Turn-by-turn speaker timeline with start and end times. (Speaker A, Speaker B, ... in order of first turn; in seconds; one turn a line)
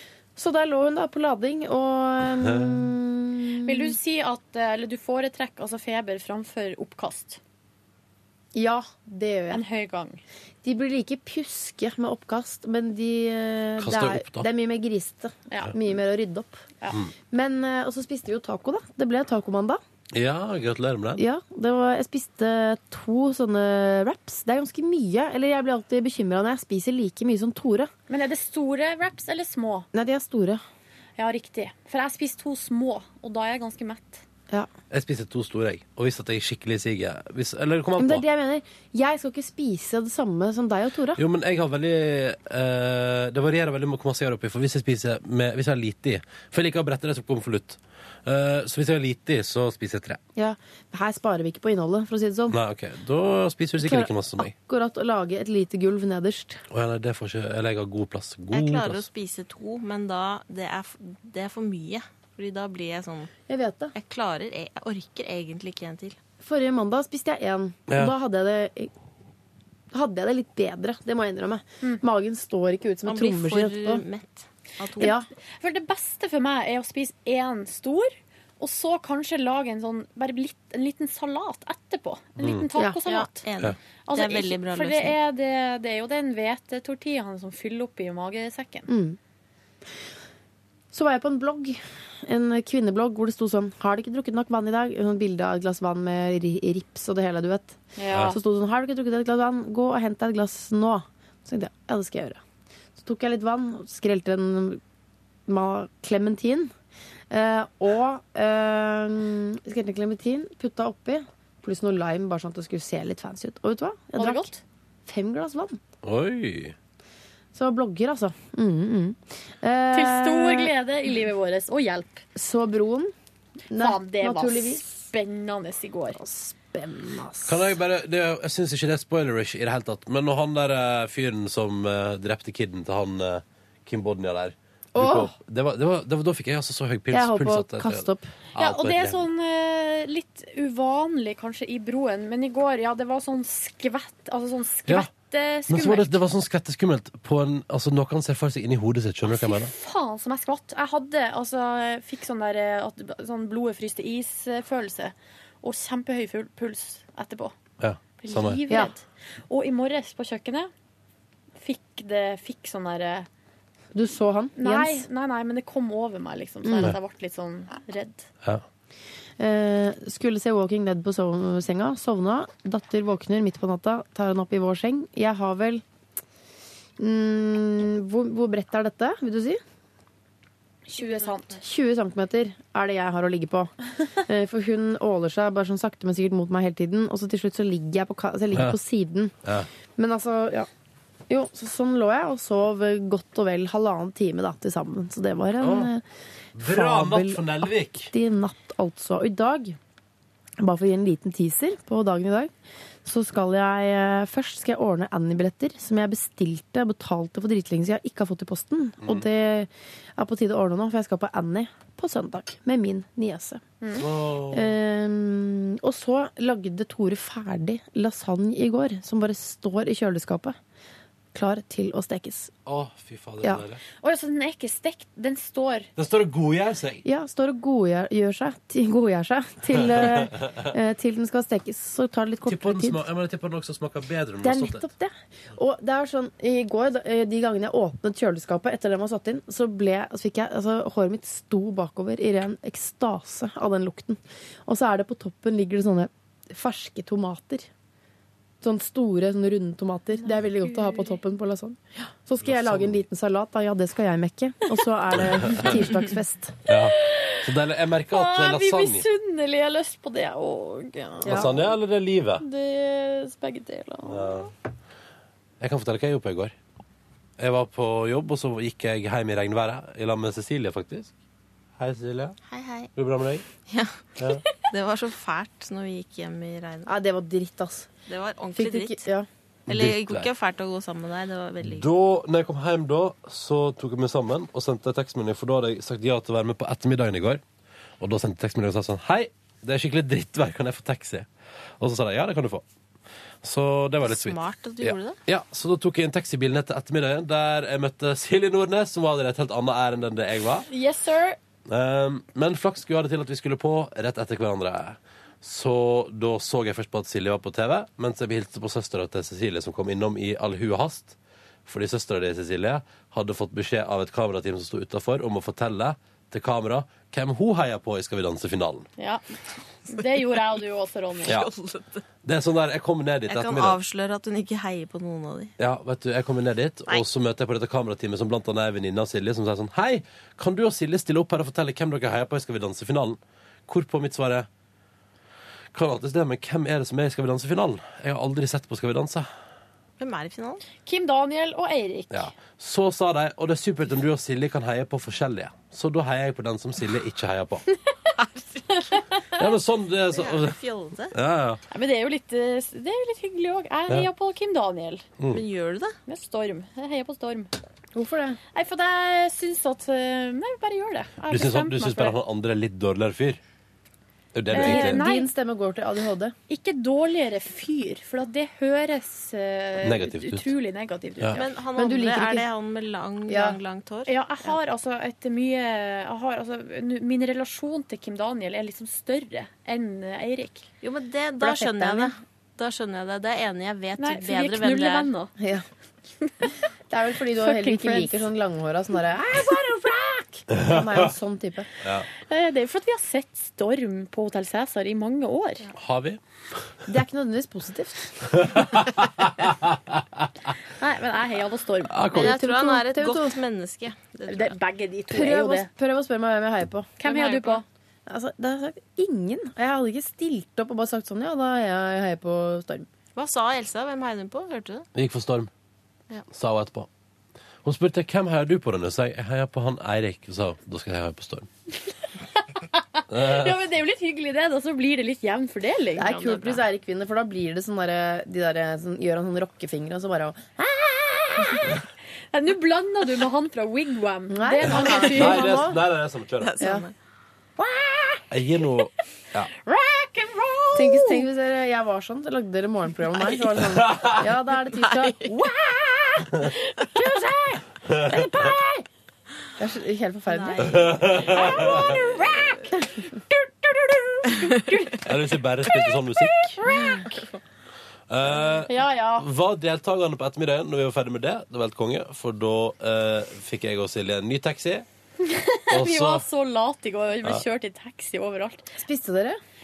Speaker A: 0.3-4.0
Speaker B: 2.4-2.8
Speaker C: 3.6-7.4
Speaker A: 8.5-9.6
Speaker C: 9.5-10.2
Speaker A: 10.6-16.6
Speaker B: 13.8-14.5
Speaker A: 17.3-19.8
Speaker B: 20.1-21.2
Speaker A: 21.2-27.9
Speaker C: 28.1-29.9
Speaker A: 29.9-30.6
Speaker C: 31.2-34.2
Speaker B: 34.9-38.2
Speaker A: 38.0-41.2
Speaker B: 41.1-50.2
Speaker A: 50.4-52.6
Speaker B: 52.5-54.5
Speaker A: 53.8-56.6
Speaker B: 56.7-59.0
Speaker D: 58.5-63.3
Speaker A: 63.5-63.9
Speaker D: 63.9-66.2
Speaker A: 66.4-68.9
Speaker B: 67.9-68.1
Speaker A: 69.9-74.0
Speaker D: 73.0-75.2
Speaker A: 75.0-75.3
Speaker C: 75.0-83.4
Speaker B: 82.4-82.6
Speaker D: 83.0-85.2
Speaker C: 84.1-88.9
Speaker A: 88.9-89.2
Speaker A: 90.9-102.4
Speaker C: 98.0-98.4
Speaker B: 98.1-98.3
Speaker A: 103.0-104.8
Speaker A: 105.5-106.7
Speaker A: 107.3-114.5
Speaker C: 114.2-114.6
Speaker A: 115.0-115.8
Speaker B: 116.0-116.7
Speaker A: 117.5-120.7
Speaker C: 119.9-122.2
Speaker A: 122.3-123.1
Speaker A: 123.7-124.8
Speaker C: 123.8-126.2
Speaker A: 126.1-127.7
Speaker B: 127.4-139.2
Speaker A: 134.9-135.3
Speaker A: 137.1-138.3
Speaker C: 138.6-146.2
Speaker B: 145.7-149.7
Speaker C: 149.2-157.6
Speaker B: 157.8-158.6
Speaker C: 158.2-160.7
Speaker C: 161.6-163.3
Speaker A: 163.9-165.1
Speaker C: 164.6-168.3
Speaker A: 166.6-166.9
Speaker A: 169.4-175.8
Speaker A: 177.0-179.6
Speaker C: 180.9-181.6
Speaker D: 181.0-181.6
Speaker A: 181.6-189.3
Speaker B: 188.5-188.8
Speaker B: 189.4-189.7
Speaker A: 189.9-190.7
Speaker A: 191.3-196.0
Speaker B: 195.6-195.9
Speaker B: 196.6-198.1
Speaker A: 196.6-199.8
Speaker A: 200.6-202.5
Speaker A: 203.1-213.6
Speaker B: 209.0-209.3
Speaker C: 213.8-214.1
Speaker B: 213.9-214.7
Speaker A: 214.5-220.6
Speaker A: 221.3-222.5
Speaker B: 222.7-223.8
Speaker C: 224.0-225.9
Speaker B: 225.9-227.0
Speaker A: 227.1-233.0
Speaker B: 229.9-230.4
Speaker B: 232.4-234.9
Speaker A: 234.4-247.7
Speaker A: 248.6-256.6
Speaker C: 250.2-251.2
Speaker B: 252.4-253.0
Speaker B: 255.1-255.8
Speaker B: 256.6-259.1
Speaker C: 256.7-257.4
Speaker C: 258.1-261.4
Speaker A: 261.2-261.6
Speaker B: 261.2-262.4
Speaker C: 262.4-264.5
Speaker B: 264.1-264.5
Speaker B: 265.6-266.5
Speaker B: 267.4-271.1
Speaker B: 271.8-272.4
Speaker D: 272.4-272.9
Speaker B: 272.9-273.4
Speaker D: 273.6-276.9
Speaker B: 274.2-274.4
Speaker A: 276.9-277.9
Speaker D: 278.1-279.1
Speaker A: 278.6-279.3
Speaker B: 279.7-280.3
Speaker D: 279.7-281.9
Speaker B: 281.6-287.4
Speaker B: 288.0-291.3
Speaker B: 291.8-292.6
Speaker B: 293.4-300.7
Speaker D: 294.0-295.2
Speaker C: 300.7-301.4
Speaker B: 301.7-318.9
Speaker C: 319.0-319.2
Speaker C: 319.9-321.4
Speaker D: 321.2-322.0
Speaker B: 322.2-323.8
Speaker D: 323.3-325.5
Speaker B: 325.6-334.5
Speaker B: 335.7-339.3
Speaker D: 340.0-340.6
Speaker C: 340.8-342.3
Speaker B: 342.1-347.6
Speaker D: 348.1-349.0
Speaker C: 348.7-349.2
Speaker B: 349.4-350.6
Speaker D: 350.1-351.1
Speaker B: 351.1-351.6
Speaker C: 351.7-355.0
Speaker D: 355.3-355.9
Speaker C: 356.1-357.5
Speaker A: 357.9-358.4
Speaker C: 358.5-362.1
Speaker B: 361.3-363.4
Speaker B: 364.3-365.1
Speaker C: 364.5-365.3
Speaker A: 364.5-366.3
Speaker C: 366.5-371.5
Speaker B: 369.8-370.5
Speaker D: 371.3-374.6
Speaker A: 371.7-372.5
Speaker A: 373.3-373.6
Speaker C: 374.1-380.6
Speaker D: 380.8-385.1
Speaker A: 381.4-382.1
Speaker C: 384.0-385.3
Speaker A: 385.4-385.6
Speaker C: 386.2-386.5
Speaker A: 386.9-391.7
Speaker C: 387.4-388.3
Speaker B: 390.6-391.0
Speaker B: 391.8-392.1
Speaker C: 392.3-395.7
Speaker B: 395.8-396.2
Speaker A: 396.9-398.7
Speaker B: 398.5-400.3
Speaker C: 400.8-402.2
Speaker B: 401.9-402.3
Speaker A: 402.1-403.4
Speaker D: 402.1-404.6
Speaker C: 404.3-405.7
Speaker A: 405.1-407.0
Speaker C: 407.0-407.6
Speaker D: 407.1-407.6
Speaker A: 408.1-412.9
Speaker D: 413.1-414.9
Speaker B: 414.9-415.5
Speaker B: 416.3-416.9
Speaker B: 417.6-421.5
Speaker C: 422.4-426.1
Speaker B: 423.1-423.6
Speaker A: 425.9-431.8
Speaker D: 426.0-426.6
Speaker C: 432.3-435.6
Speaker A: 434.3-435.8
Speaker B: 434.9-436.6
Speaker D: 436.4-436.9
Speaker A: 436.6-436.9
Speaker A: 437.6-438.2
Speaker B: 438.3-439.5
Speaker C: 439.6-441.3
Speaker A: 440.7-448.8
Speaker B: 443.5-444.3
Speaker D: 444.7-445.4
Speaker C: 446.7-447.6
Speaker B: 447.9-448.3
Speaker A: 449.6-453.1
Speaker D: 450.3-452.4
Speaker B: 450.6-451.9
Speaker C: 451.1-452.7
Speaker C: 453.3-455.1
Speaker B: 455.0-456.6
Speaker C: 455.6-457.2
Speaker D: 456.9-457.2
Speaker B: 458.1-464.9
Speaker C: 458.6-459.3
Speaker C: 465.2-468.7
Speaker B: 465.7-466.2
Speaker A: 468.8-469.4